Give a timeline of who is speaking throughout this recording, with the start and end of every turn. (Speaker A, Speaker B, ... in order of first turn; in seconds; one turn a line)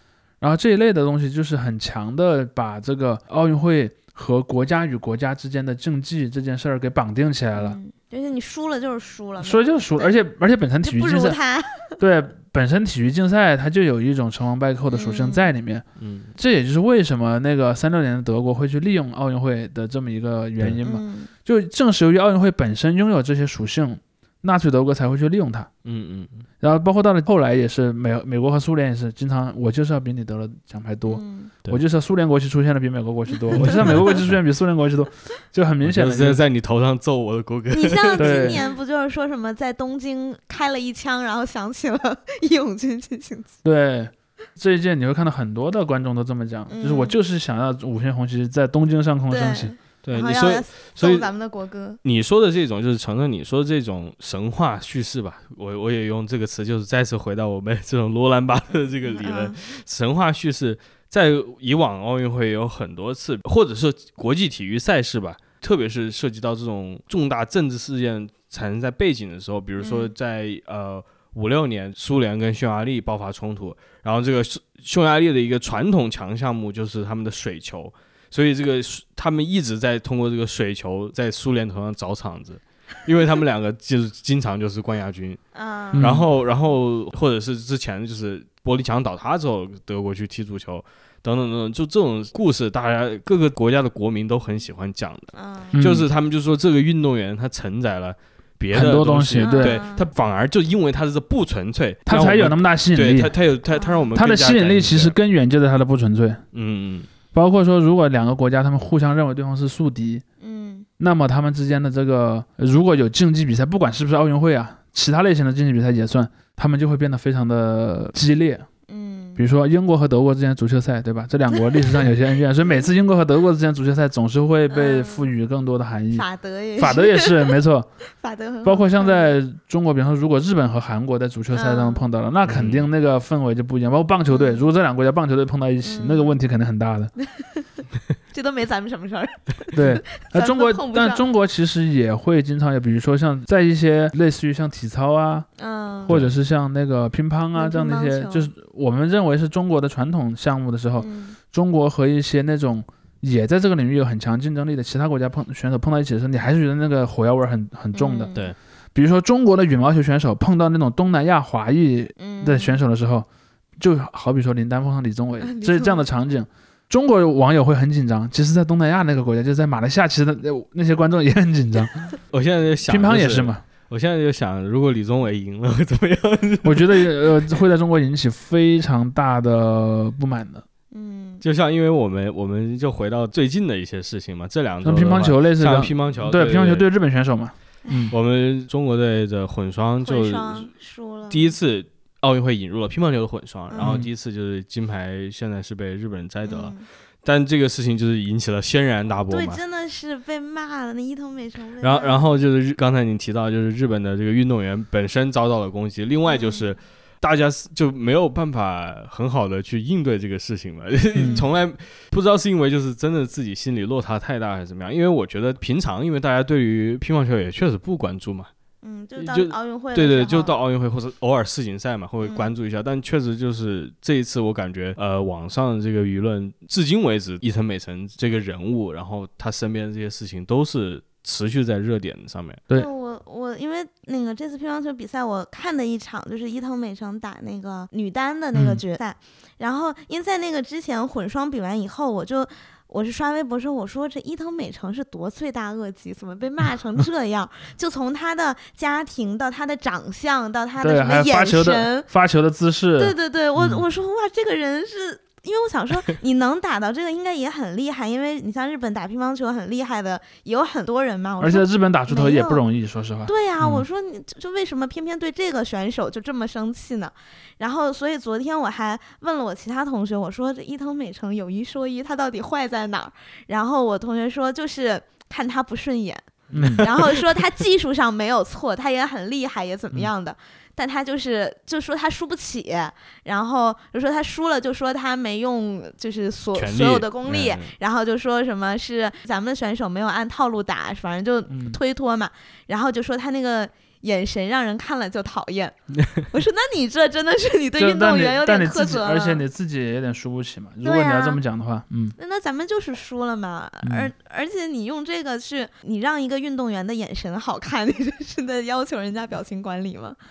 Speaker A: 0.4-7.8
Speaker B: 7.5-10.2
Speaker A: 9.4-11.4
Speaker B: 10.8-11.9
Speaker A: 12.0-15.8
Speaker B: 14.9-15.5
Speaker C: 16.0-16.3
Speaker A: 16.4-25.7
Speaker B: 20.8-21.3
Speaker C: 25.8-26.4
Speaker A: 26.6-36.4
Speaker B: 31.1-31.5
Speaker C: 33.5-34.3
Speaker B: 33.6-34.2
Speaker C: 35.8-38.6
Speaker B: 37.7-43.5
Speaker A: 38.2-38.6
Speaker A: 43.6-49.7
Speaker B: 46.7-47.2
Speaker B: 49.3-52.0
Speaker C: 50.0-51.3
Speaker C: 52.0-85.4
Speaker B: 59.0-59.6
Speaker B: 69.8-70.1
Speaker B: 85.5-86.1
Speaker A: 85.9-86.2
Speaker C: 86.0-105.1
Speaker B: 95.3-95.8
Speaker A: 95.7-96.0
Speaker A: 98.7-99.8
Speaker B: 99.4-100.1
Speaker A: 102.0-103.3
Speaker B: 103.7-104.1
Speaker A: 104.1-106.4
Speaker C: 106.5-107.1
Speaker A: 107.3-110.2
Speaker B: 110.4-110.9
Speaker A: 111.0-118.7
Speaker B: 118.9-119.4
Speaker A: 119.4-126.2
Speaker B: 121.5-122.1
Speaker B: 124.7-125.3
Speaker B: 126.1-127.5
Speaker A: 126.8-127.9
Speaker B: 128.2-129.3
Speaker A: 128.6-137.1
Speaker B: 131.5-132.0
Speaker C: 132.4-132.9
Speaker B: 134.3-134.6
Speaker B: 135.8-136.3
Speaker B: 137.2-141.2
Speaker A: 139.7-145.5
Speaker B: 145.6-146.2
Speaker A: 146.1-158.3
Speaker C: 146.1-146.3
Speaker B: 147.5-148.5
Speaker B: 151.0-151.4
Speaker B: 157.9-158.5
Speaker A: 158.9-163.3
Speaker B: 162.2-162.8
Speaker A: 163.8-172.1
Speaker B: 165.4-166.1
Speaker C: 172.3-177.2
Speaker A: 172.9-173.6
Speaker A: 176.6-180.6
Speaker B: 180.9-181.4
Speaker C: 181.4-186.9
Speaker A: 184.8-188.1
Speaker B: 187.8-188.1
Speaker C: 188.1-190.7
Speaker B: 190.0-191.6
Speaker C: 191.3-199.6
Speaker B: 193.7-194.0
Speaker A: 193.8-194.1
Speaker B: 196.4-196.8
Speaker B: 199.3-202.2
Speaker C: 201.8-218.5
Speaker B: 206.3-206.7
Speaker A: 211.2-211.4
Speaker B: 218.8-220.5
Speaker C: 219.2-232.6
Speaker B: 222.2-222.5
Speaker B: 232.7-252.1
Speaker A: 238.5-238.8
Speaker A: 250.8-253.8
Speaker B: 253.0-262.6
Speaker A: 261.4-263.8
Speaker B: 263.3-299.4
Speaker C: 276.5-277.2
Speaker A: 276.5-276.8
Speaker C: 286.5-287.7
Speaker A: 291.5-291.8
Speaker A: 297.8-302.1
Speaker B: 300.8-301.4
Speaker B: 302.2-310.2
Speaker A: 303.8-304.1